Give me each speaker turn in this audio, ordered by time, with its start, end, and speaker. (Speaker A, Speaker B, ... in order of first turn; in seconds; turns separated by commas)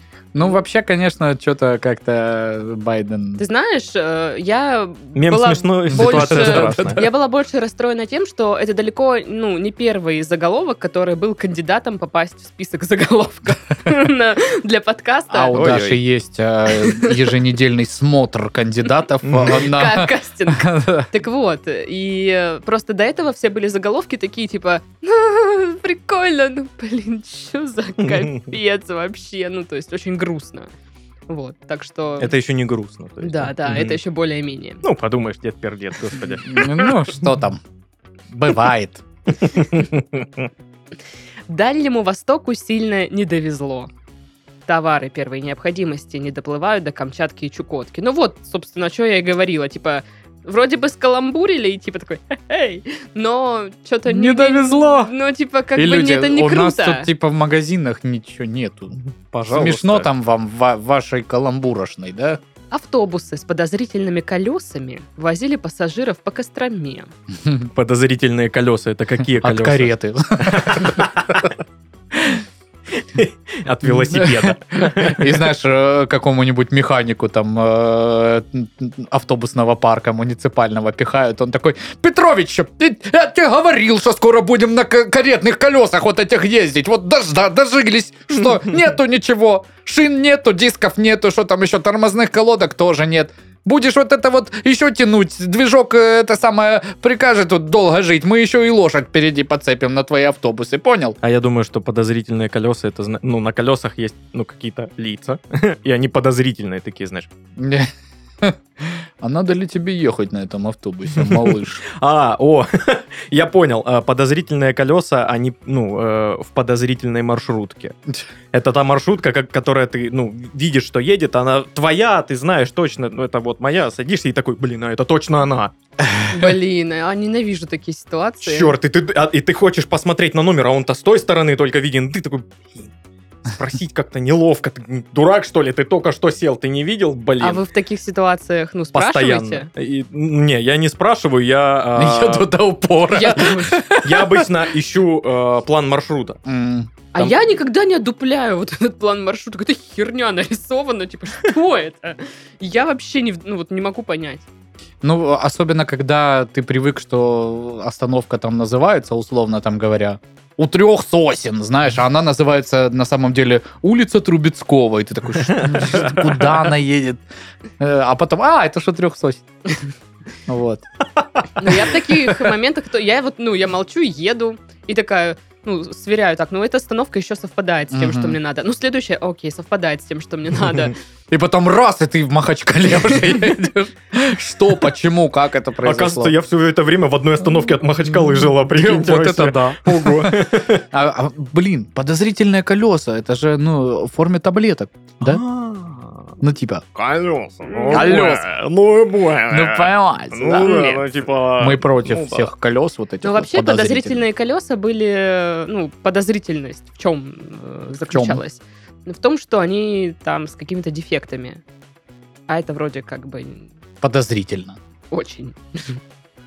Speaker A: 0.3-3.4, Speaker B: 3.4-15.6, Speaker C: 5.2-7.1, Speaker A: 5.9-7.0, Speaker A: 15.3-21.1, Speaker C: 15.5-16.0, Speaker B: 16.7-17.1, Speaker C: 19.2-19.6, Speaker B: 19.5-30.7, Speaker C: 28.0-28.5, Speaker B: 31.3-32.3, Speaker C: 32.2-34.0, Speaker B: 33.2-34.8, Speaker C: 34.8-37.0, Speaker A: 36.4-37.6, Speaker A: 38.3-39.0, Speaker C: 39.4-40.5, Speaker B: 41.5-43.9, Speaker B: 44.7-57.1, Speaker A: 54.1-55.1, Speaker A: 55.8-59.0, Speaker C: 59.0-60.1, Speaker A: 59.5-62.4, Speaker B: 62.7-67.1, Speaker A: 67.4-67.7, Speaker C: 67.7-71.5, Speaker A: 69.4-71.4, Speaker A: 72.1-72.4, Speaker C: 73.0-75.5, Speaker A: 73.8-101.2, Speaker C: 101.2-107.3, Speaker A: 107.6-107.9, Speaker A: 108.4-111.8, Speaker C: 111.1-118.0, Speaker C: 118.5-125.7, Speaker A: 126.0-126.5, Speaker B: 126.3-128.8, Speaker C: 128.4-132.9, Speaker C: 133.4-137.6, Speaker B: 137.4-139.7, Speaker C: 138.9-142.5, Speaker A: 142.0-144.5, Speaker B: 143.1-143.9, Speaker C: 144.0-146.4, Speaker A: 146.5-146.9, Speaker B: 147.1-154.5, Speaker A: 155.0-167.2, Speaker C: 165.5-166.6, Speaker A: 167.8-169.4, Speaker A: 170.5-170.8, Speaker B: 171.6-181.0, Speaker A: 177.9-178.4, Speaker A: 181.3-186.4, Speaker C: 185.8-190.8, Speaker A: 188.1-195.4, Speaker C: 195.2-196.3, Speaker A: 196.4-196.8, Speaker C: 196.9-202.5, Speaker B: 197.7-198.1, Speaker A: 197.9-198.4, Speaker A: 199.5-200.7, Speaker B: 200.6-201.0, Speaker A: 201.6-204.2, Speaker B: 203.2-211.6, Speaker A: 208.1-208.4, Speaker B: 212.5-213.7, Speaker A: 214.0-214.8, Speaker B: 215.1-216.0